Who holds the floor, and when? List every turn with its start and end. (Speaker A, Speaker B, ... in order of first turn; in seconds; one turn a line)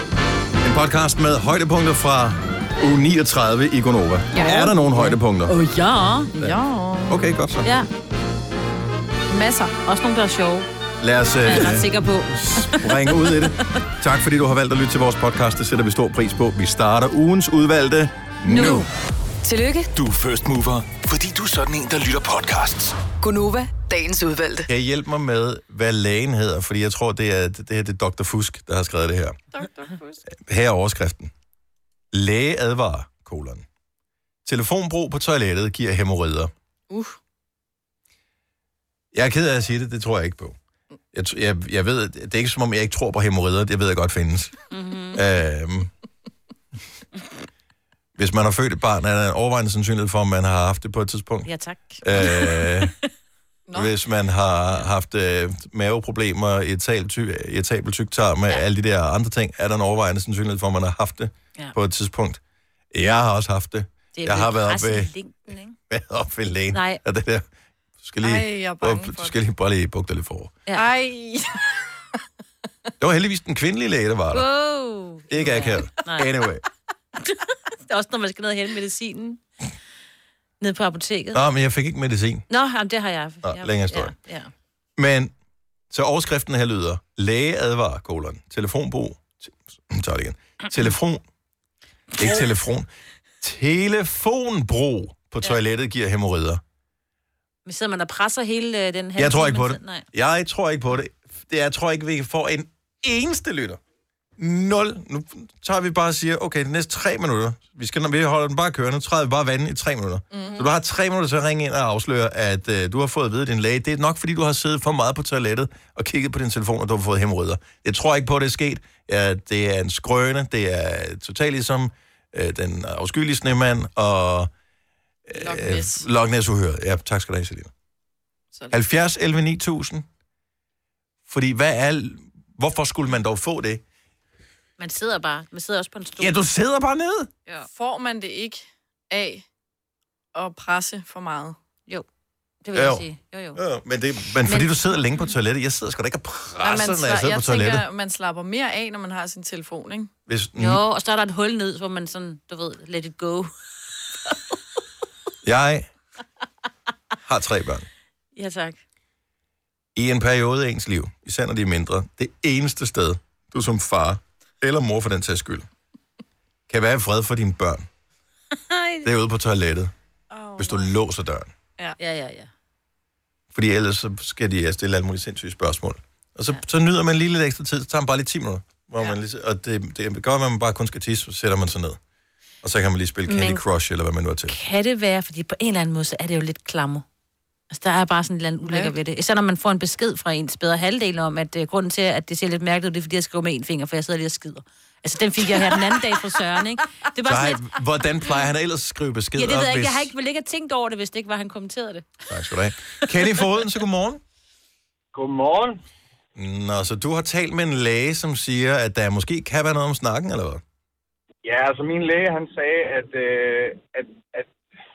Speaker A: 0.6-5.5
Speaker B: 4.3-6.3
Speaker C: 6.4-7.2
Speaker A: 7.1-7.7
Speaker C: 9.3-9.7
Speaker B: 9.9-10.7
Speaker A: 11.0-18.9
Speaker B: 11.4-13.5
Speaker D: 18.4-18.9
Speaker D: 19.4-19.9
Speaker E: 19.9-22.9
Speaker D: 23.2-24.7
Speaker A: 24.7-29.4
Speaker C: 29.5-30.2
Speaker A: 30.3-31.3
Speaker A: 32.1-33.6
Speaker A: 34.5-36.5
Speaker C: 36.9-37.2
Speaker A: 39.1-40.6
Speaker A: 41.1-44.5
Speaker B: 44.7-45.2
Speaker A: 45.2-45.9
Speaker A: 48.2-51.5
Speaker B: 51.5-52.9
Speaker A: 52.0-52.9
Speaker C: 53.7-54.0
Speaker A: 53.7-62.4
Speaker A: 62.9-65.1
Speaker B: 64.2-65.7
Speaker A: 65.9-67.4
Speaker B: 66.7-67.0
Speaker A: 68.0-70.6
Speaker C: 68.2-69.4
Speaker C: 70.7-71.6
Speaker A: 73.0-74.5
Speaker B: 74.3-76.3
Speaker A: 75.3-76.6
Speaker B: 77.2-79.4
Speaker B: 80.6-81.4
Speaker A: 81.3-82.4
Speaker B: 82.5-84.5
Speaker A: 83.4-84.1
Speaker A: 85.0-85.3
Speaker A: 85.9-91.2
Speaker A: 92.2-92.9
Speaker A: 93.4-96.6
Speaker B: 97.7-100.0
Speaker A: 99.2-103.8
Speaker A: 104.4-124.5
Speaker C: 110.3-110.7
Speaker A: 125.3-127.7
Speaker C: 125.4-126.1
Speaker C: 128.5-128.8
Speaker A: 128.7-130.1
Speaker A: 131.3-133.8
Speaker B: 134.8-136.3
Speaker A: 136.2-137.3
Speaker C: 137.6-139.4
Speaker C: 140.3-141.6
Speaker B: 142.6-143.6
Speaker A: 142.8-143.0
Speaker A: 143.6-147.8
Speaker B: 144.4-145.0
Speaker C: 146.6-150.1
Speaker A: 150.3-150.8
Speaker B: 150.6-153.5
Speaker A: 155.4-155.9
Speaker A: 157.3-157.9
Speaker B: 158.4-158.8
Speaker A: 159.9-165.7
Speaker A: 166.7-167.9
Speaker B: 168.7-169.1
Speaker A: 169.0-169.9
Speaker C: 170.3-170.9
Speaker A: 170.6-171.5
Speaker B: 172.0-172.5
Speaker A: 173.5-182.0
Speaker A: 182.6-184.6
Speaker B: 183.3-183.6
Speaker B: 184.5-187.1
Speaker B: 187.7-197.6
Speaker C: 188.7-188.9
Speaker A: 197.3-200.1
Speaker B: 199.4-202.1
Speaker A: 202.3-204.2
Speaker F: 205.1-205.8
Speaker A: 206.4-210.6
Speaker F: 211.4-214.5